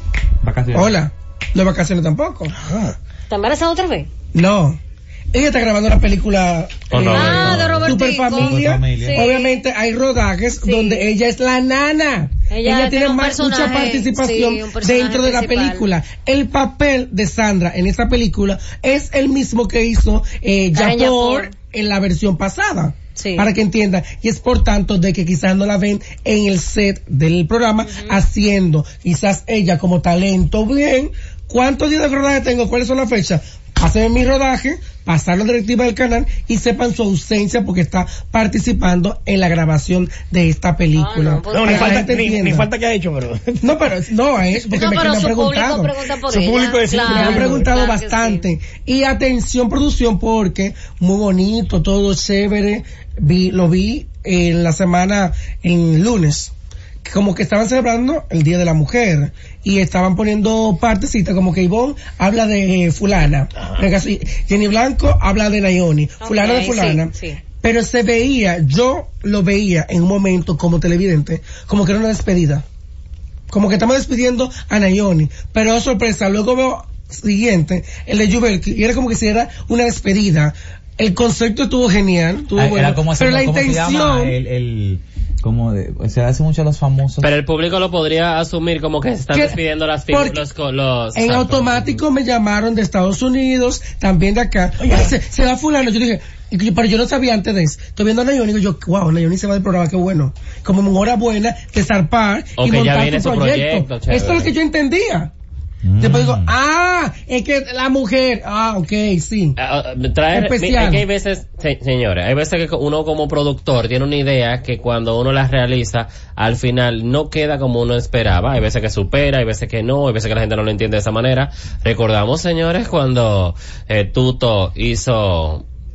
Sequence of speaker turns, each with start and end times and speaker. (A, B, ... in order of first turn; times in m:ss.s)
0:00.4-0:01.0 A
0:00.7-0:02.6 B
0:02.6-0:02.9 C
0:03.3-0:04.1 D
0:04.3-0:04.8 B
0:05.3-0:42.7 B
0:06.9-0:07.7 E
0:07.0-0:09.3 A
0:07.1-0:09.6 D
0:10.6-0:11.1 D
0:12.5-0:15.9 D
0:20.7-0:21.5 D
0:23.2-0:23.5 D
0:27.9-0:28.2 D
0:40.9-0:42.2 D
0:41.5-0:43.8 C
0:43.6-0:46.0 B
0:44.7-0:48.4 D
0:46.3-0:47.7 C
0:47.0-0:56.5 B
0:57.0-1:12.6 B
1:03.6-1:03.8 C
1:06.2-1:07.4 D
1:13.5-1:24.4 B
1:22.6-1:27.3 A
1:27.2-1:32.0 E
1:29.3-1:29.6 B
1:30.1-1:30.4 B
1:31.1-1:45.3 B
1:34.8-1:35.1 C
1:42.6-1:44.5 E
1:45.8-1:46.6 A
1:46.0-1:49.6 B
1:49.6-2:05.6 E
1:50.3-1:51.0 B